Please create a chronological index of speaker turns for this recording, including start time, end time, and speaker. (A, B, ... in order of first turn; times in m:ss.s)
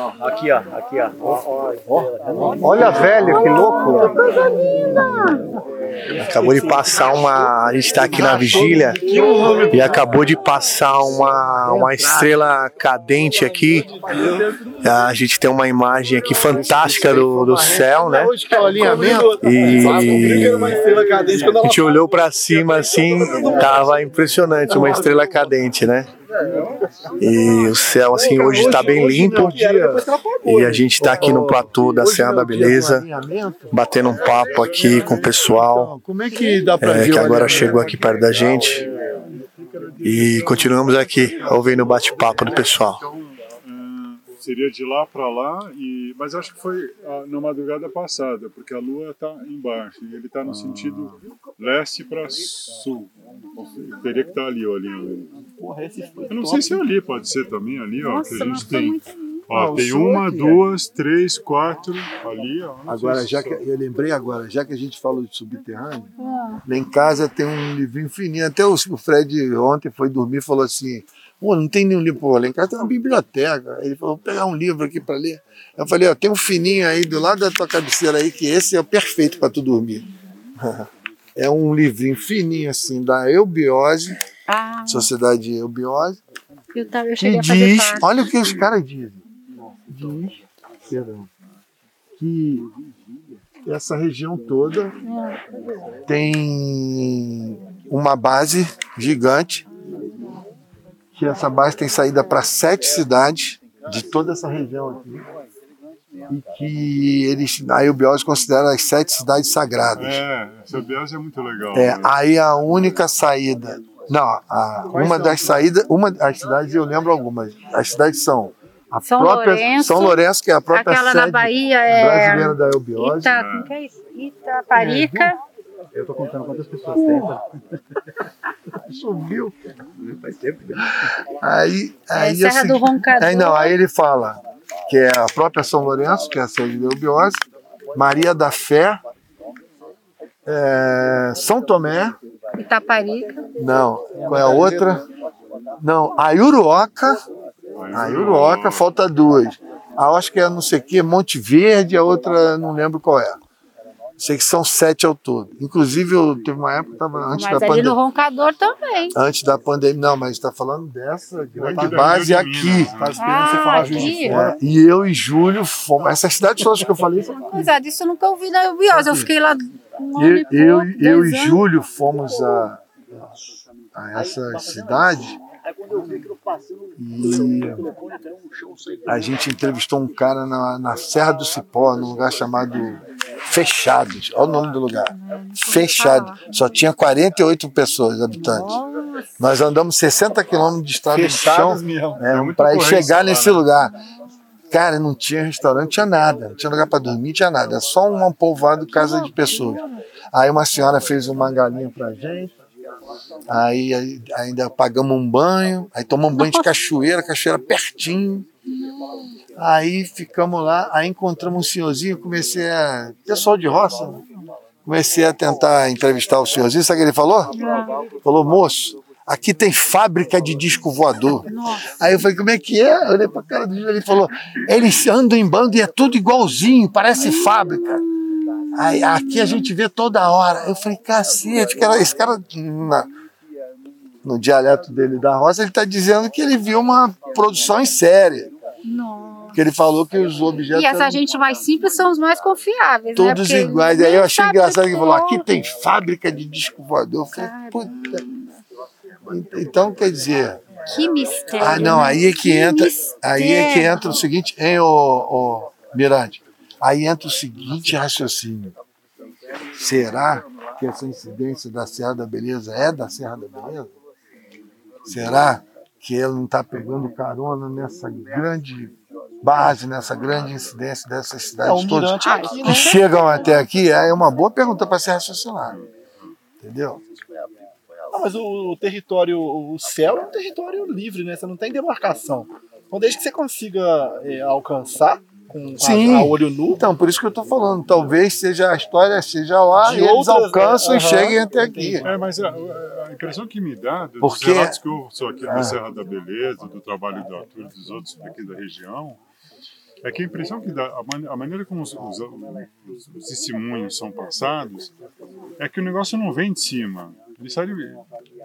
0:00.5-0:03.6 A
0:02.6-0:04.2 B
0:02.6-0:03.3 C
0:03.3-0:05.4 D
0:04.1-0:05.0 A
0:06.1-0:09.0 B
0:06.1-0:10.2 A
0:08.1-0:09.9 C
0:09.0-0:09.7 D
0:09.7-0:13.9 B
0:11.7-0:12.3 C
0:11.8-0:12.3 A
0:14.0-0:14.9 A
0:14.8-0:18.4 B
0:16.5-0:21.9 A
0:16.6-0:17.7 C
0:18.5-0:21.3 C
0:19.4-0:20.9 B
0:21.6-0:26.1 B
0:23.0-0:23.9 A
0:24.7-0:25.2 A
0:26.4-0:26.8 A
0:27.2-0:29.6 B
0:27.6-0:31.6 A
0:28.4-0:30.0 C
0:30.4-0:33.1 B
0:31.0-0:38.0 C
0:33.7-0:35.9 B
0:34.0-0:35.6 E
0:36.3-0:38.8 A
0:36.8-0:38.8 B
0:38.4-0:38.7 E
0:39.4-0:41.6 E
0:40.0-0:43.0 B
0:43.6-0:55.3 E
0:55.6-0:56.8 A
0:56.3-1:03.6 E
0:58.0-0:59.5 D
0:59.6-1:00.5 C
0:59.6-1:00.6 A
1:02.9-1:06.1 C
1:06.2-1:06.6 D
1:06.7-1:20.0 C
1:21.4-1:24.2 C
1:24.5-1:25.1 D
1:24.9-1:26.2 C
1:26.7-1:28.1 D
1:27.2-1:29.2 C
1:29.9-1:31.3 C
1:32.2-1:32.7 C
1:33.6-1:34.9 C
1:35.0-1:35.4 D
1:36.1-1:39.6 C
1:41.2-1:45.3 C
1:46.3-1:50.2 C
1:50.0-1:52.1 E
1:51.7-2:03.4 C
1:54.9-1:55.6 A
1:59.0-2:00.2 D
2:00.7-2:05.4 D
2:03.3-2:03.7 E
2:04.8-2:05.3 C
2:05.9-2:07.4 A
2:08.9-2:09.6 C
2:10.0-2:10.8 A
2:11.4-2:17.4 C
2:12.2-2:13.8 D
2:17.9-2:19.0 C
2:20.5-2:22.2 C
2:22.6-2:23.4 D
2:23.6-2:25.0 C
2:24.2-2:24.9 A
2:25.8-2:27.2 C
2:27.8-2:28.8 E
2:27.9-2:33.4 C
2:34.2-2:38.0 C
2:37.3-2:39.2 D
2:39.2-2:47.6 C
2:41.6-2:43.3 E
2:43.2-2:44.4 D
2:43.5-2:44.5 A
2:47.4-2:51.6 D
2:48.9-2:49.3 C
2:50.2-2:52.8 C
2:54.0-2:55.4 C
2:57.0-2:57.8 C
2:59.1-3:08.8 C
3:05.1-3:06.4 D
3:08.3-3:09.3 D
3:09.4-3:13.9 C
3:11.1-3:12.2 A
3:12.2-3:13.6 E
3:14.7-3:19.8 C
3:18.9-3:20.0 D
3:20.3-3:22.5 C
3:23.5-3:28.5 C
3:26.3-3:26.7 D
3:28.7-3:29.3 D
3:29.6-3:34.2 C
3:34.8-3:37.5 C
3:37.5-3:38.0 D
3:38.2-3:48.0 C
3:41.5-3:41.9 D
3:47.2-3:47.5 D
3:48.7-3:53.1 C
3:48.8-3:49.6 D
3:54.2-3:58.5 C
3:58.9-3:59.6 D
3:59.6-4:01.2 C
4:00.7-4:05.4 D
4:03.2-4:08.2 C
4:07.3-4:08.2 D
4:09.3-4:10.7 C
4:10.9-4:14.2 D
4:11.6-4:18.8 C
4:19.8-4:23.9 C
4:25.1-4:35.8 C
4:31.7-4:32.9 A
4:32.2-4:33.6 D
4:36.6-4:37.0 C
4:38.1-4:46.8 A
4:45.8-4:52.1 C
4:49.8-4:52.1 A
4:52.0-4:59.2 E
4:54.2-4:54.8 C
4:55.4-4:55.8 C
5:00.0-5:04.9 E
5:05.6-5:08.0 E